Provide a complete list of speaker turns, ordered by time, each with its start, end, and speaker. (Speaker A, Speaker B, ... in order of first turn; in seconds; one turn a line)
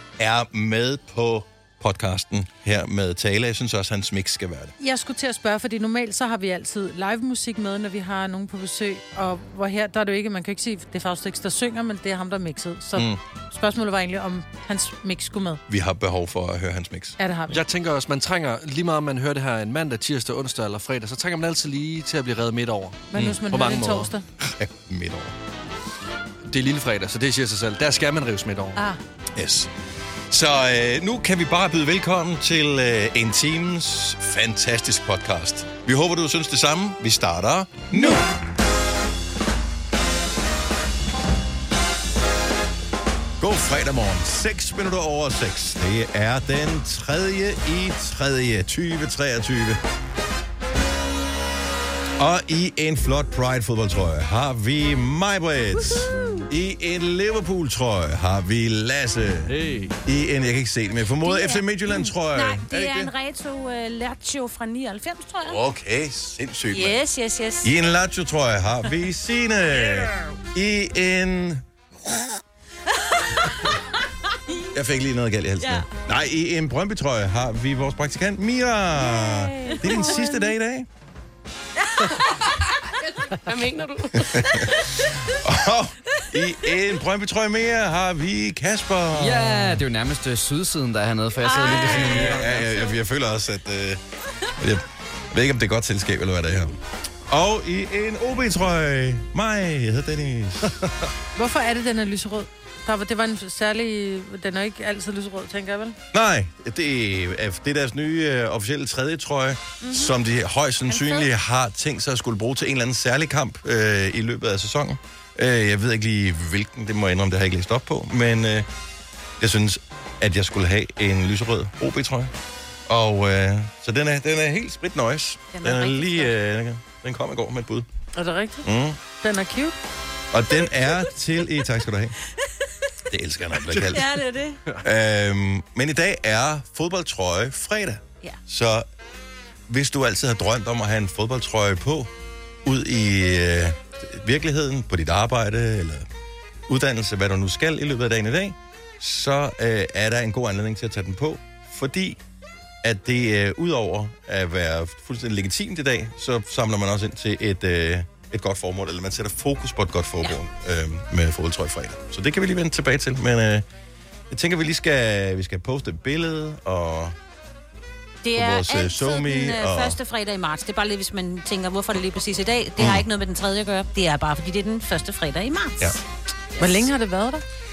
Speaker A: 0.2-4.7
Speaker B: 4.8-15.6
Speaker A: 12.9-13.2
Speaker A: 15.7-17.2
Speaker B: 17.2-17.6
Speaker C: 17.5-24.1
Speaker B: 23.1-24.2
Speaker A: 24.4-25.3
Speaker C: 26.4-28.8
Speaker A: 29.3-29.7
Speaker A: 30.3-38.2
Speaker A: 43.4-49.8
Speaker A: 52.2-59.5
Speaker C: 59.5-60.0
Speaker A: 60.0-63.1
Speaker D: 61.2-65.6
Speaker A: 65.4-67.0
Speaker D: 66.7-67.7
Speaker A: 67.6-71.6
Speaker D: 73.1-73.8
Speaker A: 74.7-80.9
Speaker D: 75.6-75.9
Speaker D: 79.1-80.4
Speaker D: 81.8-82.7
Speaker D: 83.5-85.0
Speaker A: 84.1-89.8
Speaker E: 89.1-92.6
Speaker D: 91.4-92.9
Speaker A: 91.6-94.0
Speaker A: 94.6-96.7
Speaker A: 97.3-100.8
Speaker B: 101.3-106.0
Speaker A: 106.1-118.7
Speaker D: 109.8-110.1
Speaker D: 110.9-111.3
Speaker A: 119.4-122.3
Speaker A: 122.9-127.9
Speaker D: 125.5-126.3
Speaker B: 128.1-128.7
Speaker A: 128.6-129.0
Speaker B: 129.2-129.7
Speaker A: 130.3-132.1
Speaker A: 133.1-134.1
Speaker C: 133.7-134.0
Speaker D: 133.9-134.6
Speaker A: 134.8-138.8
Speaker A: 139.7-142.1
Speaker A: 142.6-146.1
Speaker A: 146.7-152.2
Speaker A: 152.8-163.7
Speaker A: 164.3-167.1
Speaker D: 168.2-176.0
Speaker A: 168.3-170.0
Speaker A: 172.8-173.0
Speaker D: 176.6-176.9
Speaker B: 176.6-177.4